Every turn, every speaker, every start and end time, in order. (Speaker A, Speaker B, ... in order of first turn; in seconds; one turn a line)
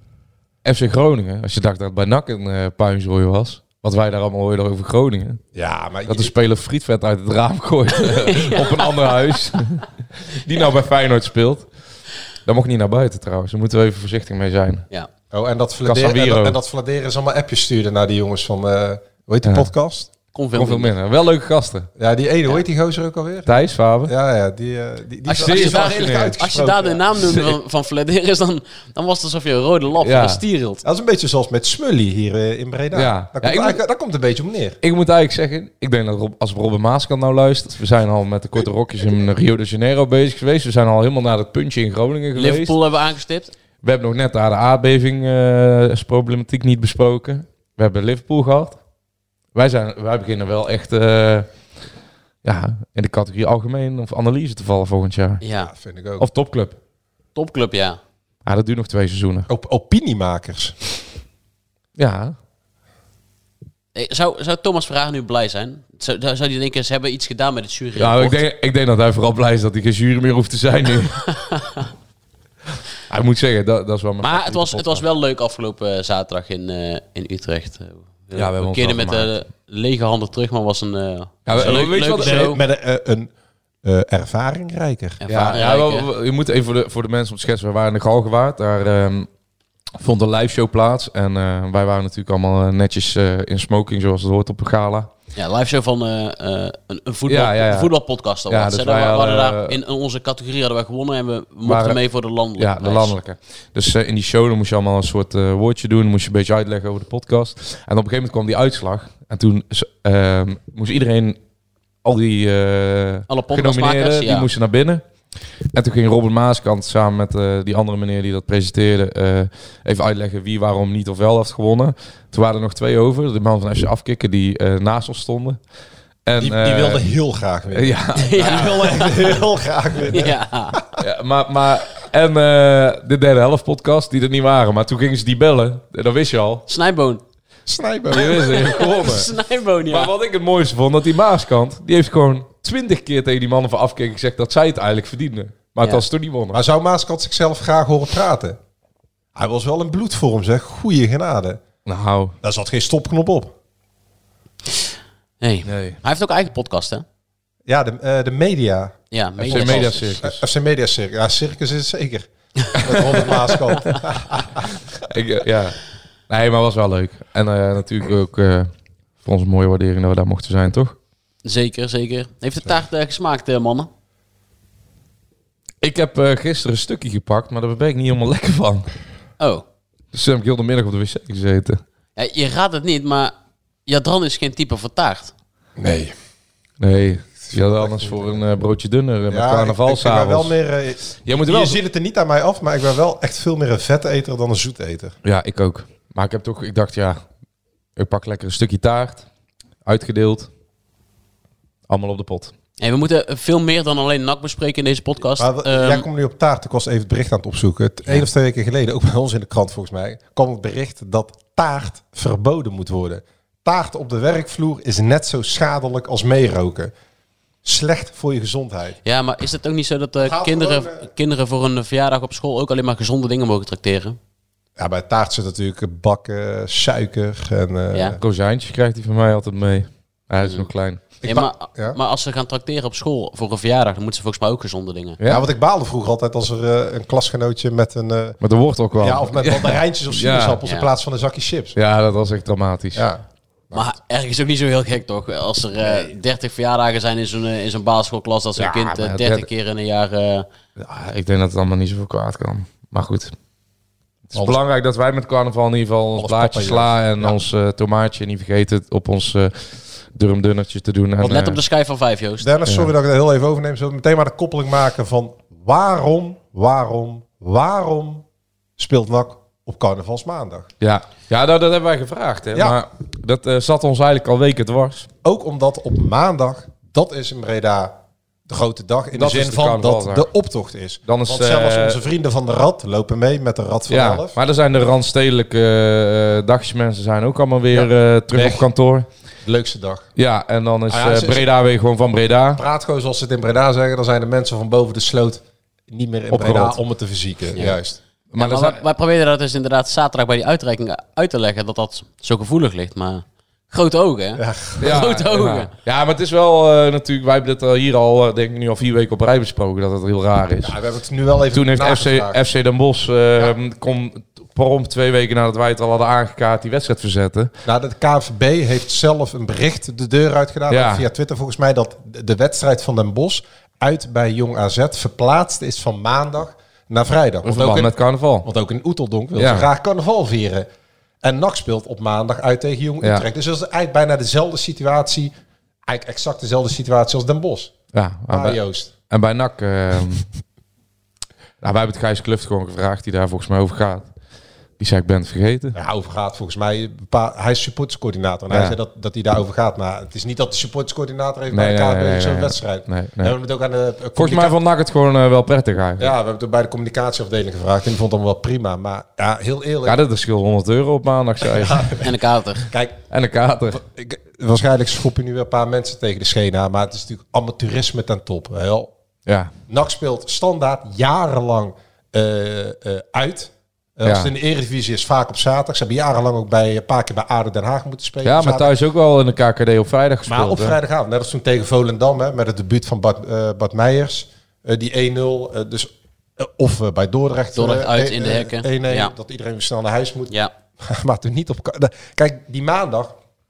Speaker A: 0.6-5.4
Speaker B: 5.5-6.3
Speaker A: 6.1-11.7
Speaker C: 8.4-8.8
Speaker A: 12.4-14.9
Speaker B: 15.3-20.1
Speaker A: 15.8-16.6
Speaker C: 20.3-20.9
Speaker A: 20.5-21.9
Speaker B: 22.0-27.0
Speaker A: 23.5-24.1
Speaker C: 25.2-30.8
Speaker A: 25.4-26.4
Speaker A: 27.1-27.5
Speaker A: 30.0-30.4
Speaker B: 30.8-34.8
Speaker A: 32.9-33.8
Speaker A: 34.8-42.8
Speaker C: 42.4-43.5
Speaker A: 43.8-48.8
Speaker A: 49.5-51.5
Speaker A: 52.4-55.4
Speaker C: 55.4-55.7
Speaker B: 55.6-56.3
Speaker A: 56.2-56.8
Speaker C: 57.4-58.0
Speaker A: 58.5-59.5
Speaker B: 59.5-60.8
Speaker A: 62.0-62.4
Speaker C: 64.0-68.4
Speaker A: 68.0-71.3
Speaker A: 73.1-75.0
Speaker C: 74.2-82.6
Speaker A: 78.3-79.3
Speaker A: 81.5-82.5
Speaker B: 81.5-83.3
Speaker B: 83.8-85.2
Speaker C: 85.2-86.1
Speaker A: 85.3-89.3
Speaker A: 90.0-95.1
Speaker C: 95.4-103.1
Speaker A: 97.3-97.9
Speaker A: 98.5-99.8
Speaker A: 101.6-102.0
Speaker A: 102.6-111.4
Speaker A: 112.0-115.0
Speaker C: 113.3-114.5
Speaker A: 115.7-125.6
Speaker A: 126.2-127.0
Speaker B: 126.4-131.0
Speaker A: 127.7-129.0
Speaker C: 128.2-129.2
Speaker C: 130.1-130.8
Speaker A: 131.0-136.6
Speaker C: 136.7-137.2
Speaker B: 137.7-138.8
Speaker A: 138.1-139.3
Speaker C: 138.1-140.1
Speaker A: 139.9-146.6
Speaker B: 146.5-148.6
Speaker B: 149.3-151.6
Speaker A: 151.9-152.3
Speaker B: 152.4-153.5
Speaker C: 155.4-157.0
Speaker A: 155.7-156.0
Speaker B: 157.7-164.7
Speaker C: 159.1-160.1
Speaker A: 159.5-160.4
Speaker A: 165.0-168.7
Speaker A: 169.2-171.0
Speaker C: 171.4-173.9
Speaker A: 175.8-178.9
Speaker C: 179.4-179.6
Speaker A: 180.1-181.8
Speaker C: 182.2-183.3
Speaker C: 183.9-185.3
Speaker B: 185.8-186.1
Speaker A: 186.8-190.5
Speaker B: 187.5-188.4
Speaker B: 189.3-195.2
Speaker A: 191.2-191.8
Speaker A: 195.2-197.2
Speaker A: 198.0-199.2
Speaker A: 199.8-200.5
Speaker A: 201.9-202.5
Speaker C: 202.8-206.1
Speaker B: 205.4-216.9
Speaker B: 217.6-219.0
Speaker C: 219.0-224.2
Speaker B: 220.2-221.1
Speaker B: 224.8-228.2
Speaker A: 228.2-231.0
Speaker C: 230.4-230.7
Speaker B: 231.2-232.0
Speaker C: 231.2-235.2
Speaker A: 235.2-235.5
Speaker B: 235.2-238.4
Speaker A: 238.4-240.6
Speaker B: 239.0-241.8
Speaker A: 241.8-243.0
Speaker B: 242.9-243.9
Speaker C: 243.7-250.5
Speaker A: 248.6-249.5
Speaker A: 250.8-253.3
Speaker A: 254.3-261.6
Speaker B: 254.3-254.6
Speaker B: 256.1-257.4
Speaker C: 261.2-262.5
Speaker B: 262.4-268.2
Speaker A: 262.6-262.9
Speaker B: 268.8-270.7
Speaker A: 270.8-275.1
Speaker B: 275.2-284.4
Speaker A: 279.1-280.3
Speaker A: 281.1-282.0
Speaker A: 283.9-289.1
Speaker B: 287.7-288.6
Speaker B: 289.4-290.1
Speaker A: 290.1-292.6
Speaker B: 290.9-291.5
Speaker B: 292.5-298.0
Speaker A: 296.3-296.8
Speaker A: 298.3-298.8
Speaker C: 298.4-305.7
Speaker B: 304.4-305.0
Speaker A: 304.8-310.8
Speaker B: 310.6-312.4
Speaker A: 311.5-317.5
Speaker B: 317.6-330.7
Speaker A: 320.7-321.1
Speaker A: 327.4-328.5
Speaker A: 329.4-329.7
Speaker B: 331.2-335.3
Speaker B: 335.9-337.7
Speaker A: 337.9-338.6
Speaker B: 338.3-338.9
Speaker A: 339.1-340.3
Speaker A: 341.6-344.1
Speaker A: 344.8-345.8
Speaker B: 345.7-354.6
Speaker A: 348.5-348.8
Speaker A: 351.5-353.3
Speaker A: 354.1-356.1
Speaker B: 356.0-360.0
Speaker A: 359.9-362.0
Speaker B: 361.4-362.1
Speaker C: 362.0-362.6
Speaker B: 362.6-363.0
Speaker A: 363.1-363.8
Speaker B: 363.7-368.9
Speaker A: 369.2-369.5
Speaker B: 369.7-378.7
Speaker A: 374.0-374.3
Speaker A: 378.2-380.8
Speaker B: 380.2-393.1
Speaker C: 387.5-389.1